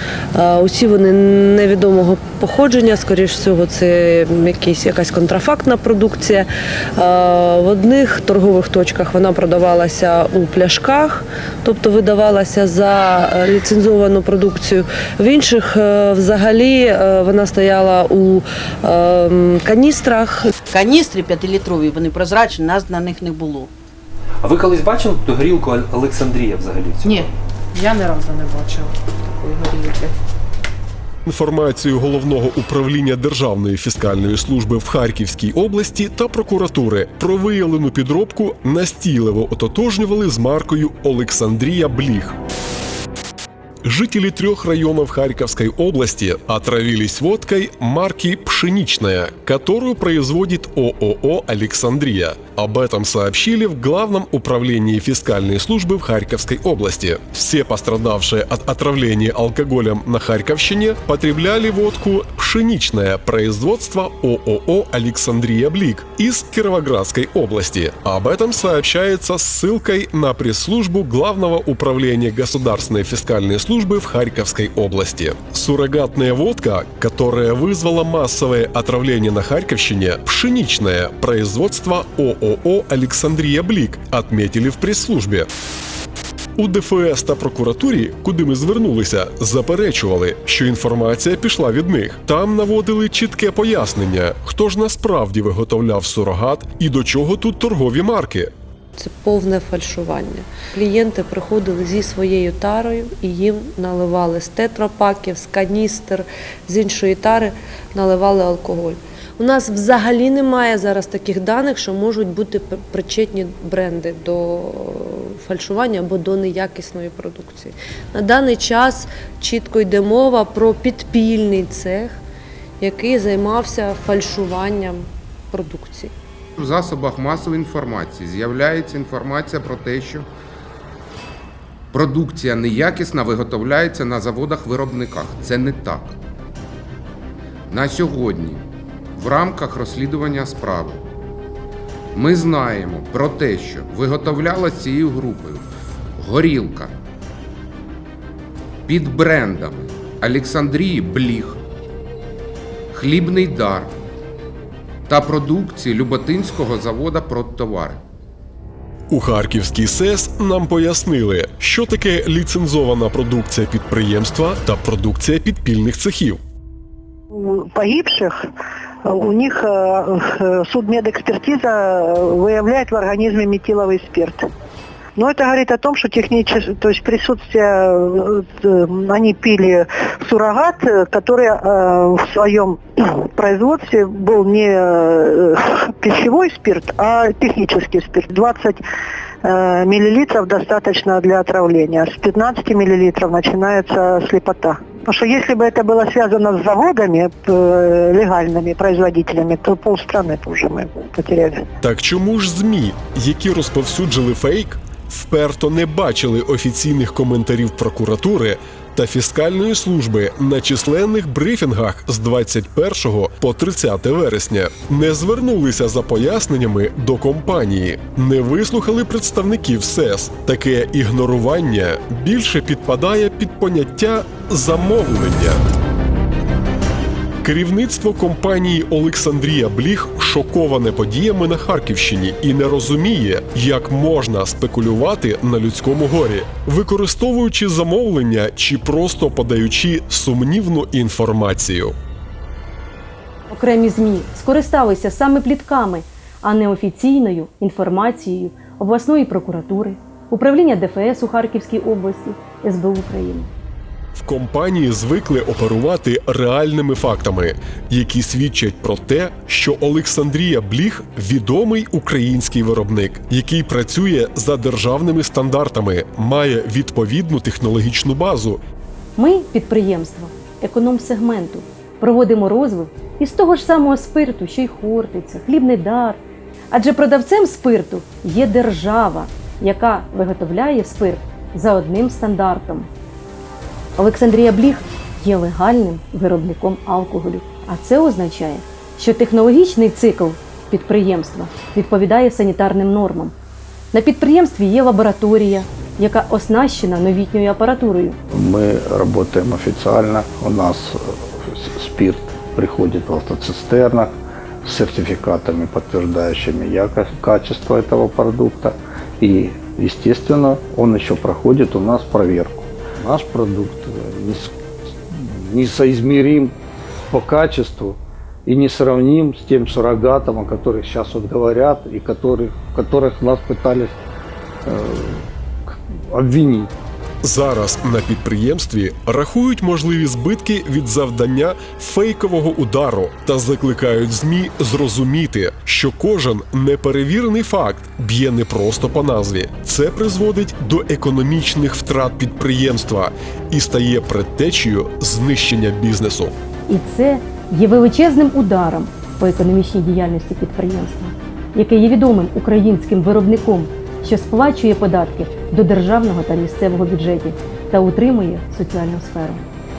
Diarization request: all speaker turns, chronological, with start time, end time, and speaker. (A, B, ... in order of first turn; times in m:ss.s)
0:00.3-0:20.5 A
0:20.7-0:23.7 B
0:24.4-0:27.3 C
0:27.0-0:30.1 D
0:31.2-0:42.4 E
0:43.8-1:25.5 E
1:26.6-1:38.5 E
1:39.0-2:02.2 A
2:02.8-2:06.1 A
2:06.6-2:10.2 F
2:11.9-2:16.1 F
2:17.7-2:18.6 F
2:19.2-2:21.0 F
2:22.2-2:25.6 F
2:26.2-2:26.9 F
2:28.9-2:31.5 F
2:32.9-2:33.9 F
2:35.1-2:38.0 F
2:39.1-2:46.4 E
2:47.3-2:48.4 G
2:49.0-2:54.4 G
2:55.2-3:08.8 G
3:09.4-3:21.6 G
3:21.8-3:45.6 E
3:47.4-4:02.0 E
4:03.5-4:13.5 H
4:14.1-4:28.6 E
4:29.2-4:36.2 H
4:36.7-4:42.9 H
4:44.0-4:53.3 H
4:53.9-4:58.2 H
4:58.3-5:14.6 I
5:15.1-5:16.5 I
5:17.1-5:24.0 I
5:24.6-5:26.7 I
5:27.2-5:46.3 E
5:46.7-5:59.4 H